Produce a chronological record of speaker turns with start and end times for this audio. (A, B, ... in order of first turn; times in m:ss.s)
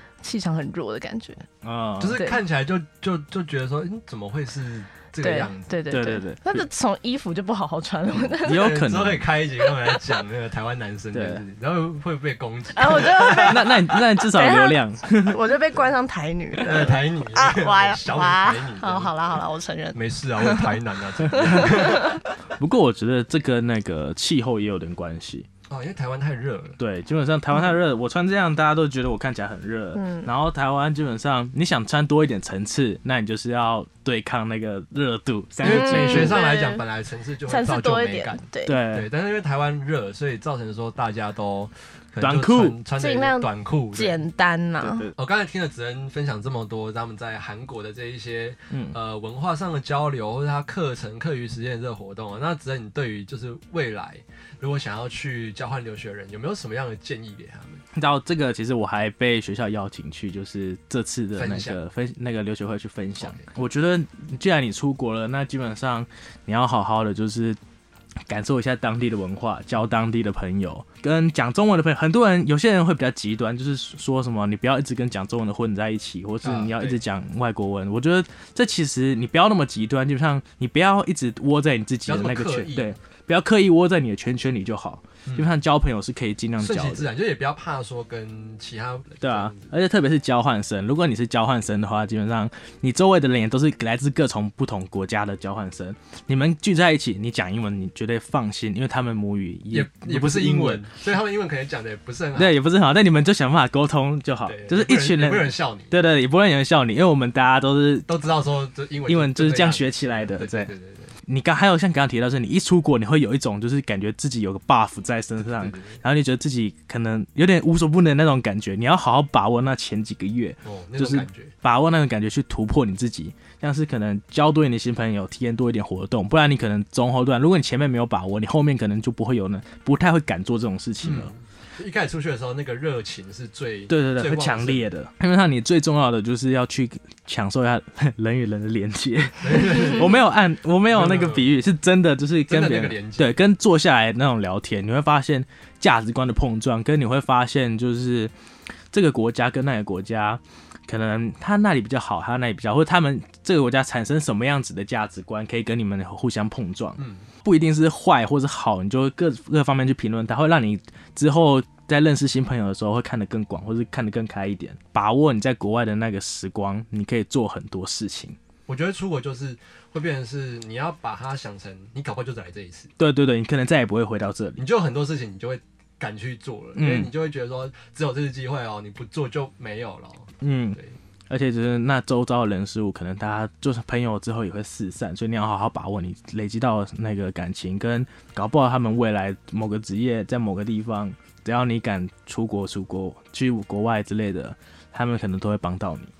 0:00.2-0:01.4 A
0:01.6-0:02.2 B
0:02.0-0:05.8 C
0:02.1-0:02.4 A
0:05.2-0:08.7 A
0:05.9-0:06.6 B
0:08.4-0:13.8 C
0:08.4-0:09.3 B
0:09.6-0:10.1 A
0:11.1-0:11.4 B
0:12.7-0:20.8 A
0:13.4-0:15.4 B
0:16.6-0:19.4 C
0:19.9-0:22.2 C
0:21.3-0:22.2 A
0:21.4-0:21.8 B
0:22.6-0:25.5 B
0:25.7-0:26.8 C
0:26.8-0:36.4 B
0:29.9-0:30.3 A
0:35.6-0:44.2 C
0:35.6-0:36.8 A
0:37.5-0:38.8 A
0:38.6-0:39.1 B
0:42.2-0:42.8 B
0:43.0-0:45.0 A
0:44.8-0:45.2 B
0:45.2-0:57.8 C
0:48.7-0:49.0 B
0:57.9-1:07.6 B
1:01.4-1:01.8 C
1:03.2-1:03.5 C
1:08.3-1:27.1 B
1:16.4-1:17.0 C
1:22.0-1:23.0 C
1:25.2-1:25.5 C
1:26.6-1:29.7 C
1:29.2-1:40.9 B
1:39.7-1:42.6 C
1:42.4-1:48.1 B
1:44.4-1:46.0 C
1:48.1-1:51.1 C
1:49.1-1:50.7 B
1:51.2-2:11.3 B
1:55.4-1:56.0 C
2:00.6-2:01.5 C
2:11.0-2:14.9 C
2:13.9-2:28.3 B
2:19.4-2:20.2 C
2:20.9-2:21.5 C
2:22.5-2:23.4 C
2:28.9-2:48.4 B
2:37.0-2:37.3 C
2:48.7-2:52.9 C
2:53.0-2:54.6 B
2:54.6-3:01.0 C
2:56.8-2:57.1 B
3:00.4-3:16.1 B